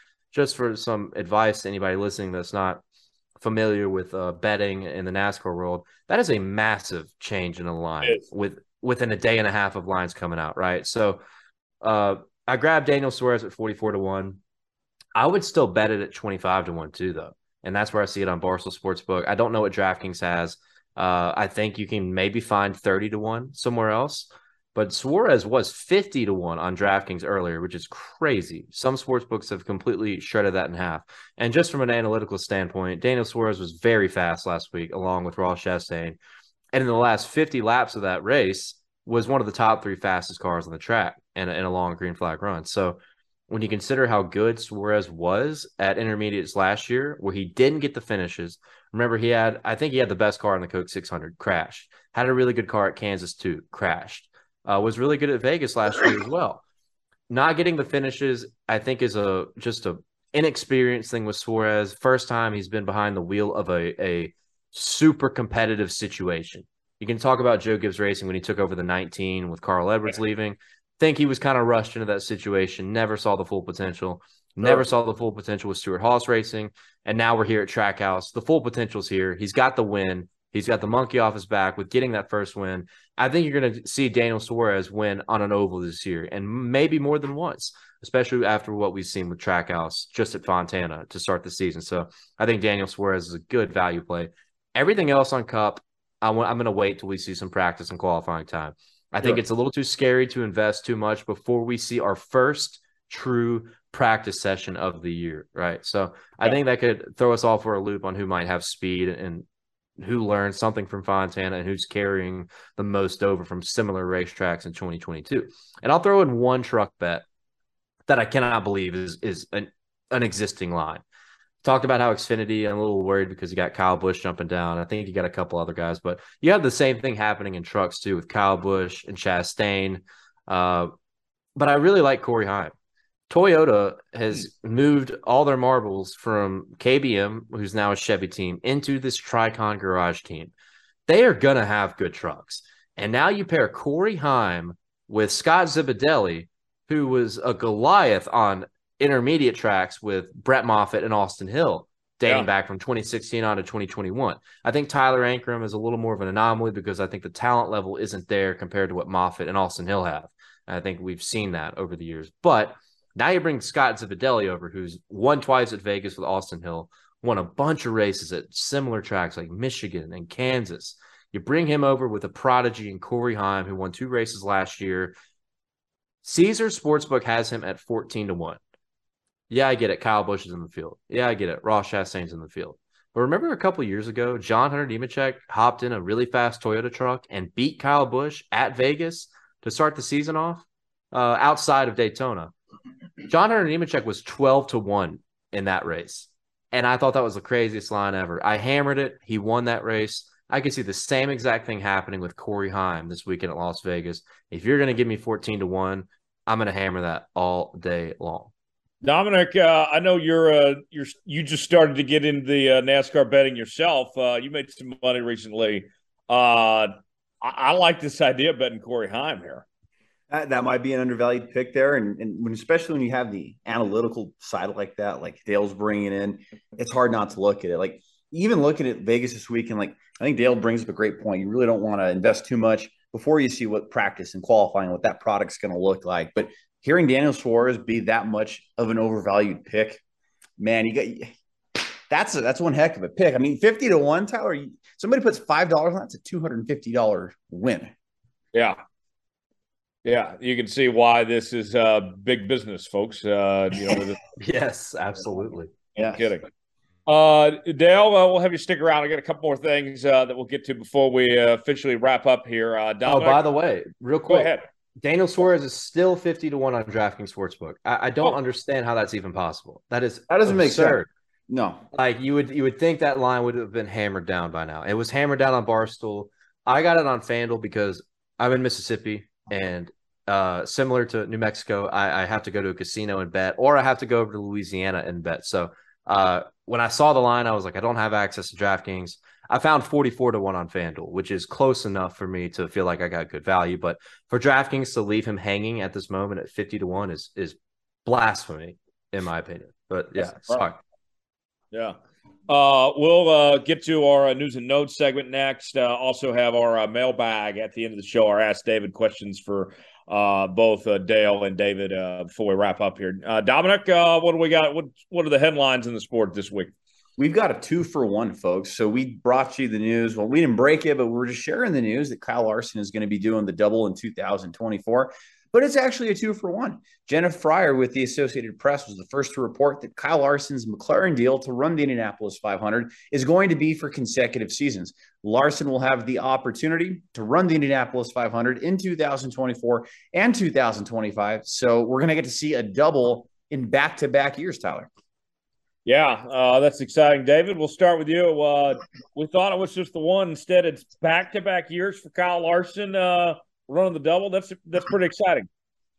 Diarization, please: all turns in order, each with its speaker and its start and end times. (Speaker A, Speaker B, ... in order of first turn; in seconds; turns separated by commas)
Speaker A: 0.3-2.8, Speaker A: 3.4-11.2, Speaker A: 11.8-14.4, Speaker A: 15.2-36.2, Speaker A: 36.7-56.6, Speaker A: 57.3-109.4, Speaker A: 110.0-117.2, Speaker A: 118.1-121.0, Speaker A: 121.6-130.9, Speaker A: 131.6-132.7, Speaker A: 133.3-140.5, Speaker A: 141.1-175.1, Speaker A: 176.2-178.6, Speaker A: 179.5-192.5, Speaker A: 193.3-208.5, Speaker B: 209.0-219.6, Speaker C: 220.3-240.0, Speaker C: 240.6-241.3, Speaker C: 242.1-247.9, Speaker B: 248.5-248.8, Speaker B: 250.0-254.2, Speaker A: 254.4-255.7, Speaker B: 255.9-256.4, Speaker C: 256.0-256.3, Speaker B: 257.1-263.4, Speaker A: 263.1-271.1, Speaker B: 264.3-264.6, Speaker C: 270.3-271.8, Speaker A: 271.9-300.8, Speaker B: 302.5-316.7, Speaker C: 317.2-344.9, Speaker B: 345.8-355.5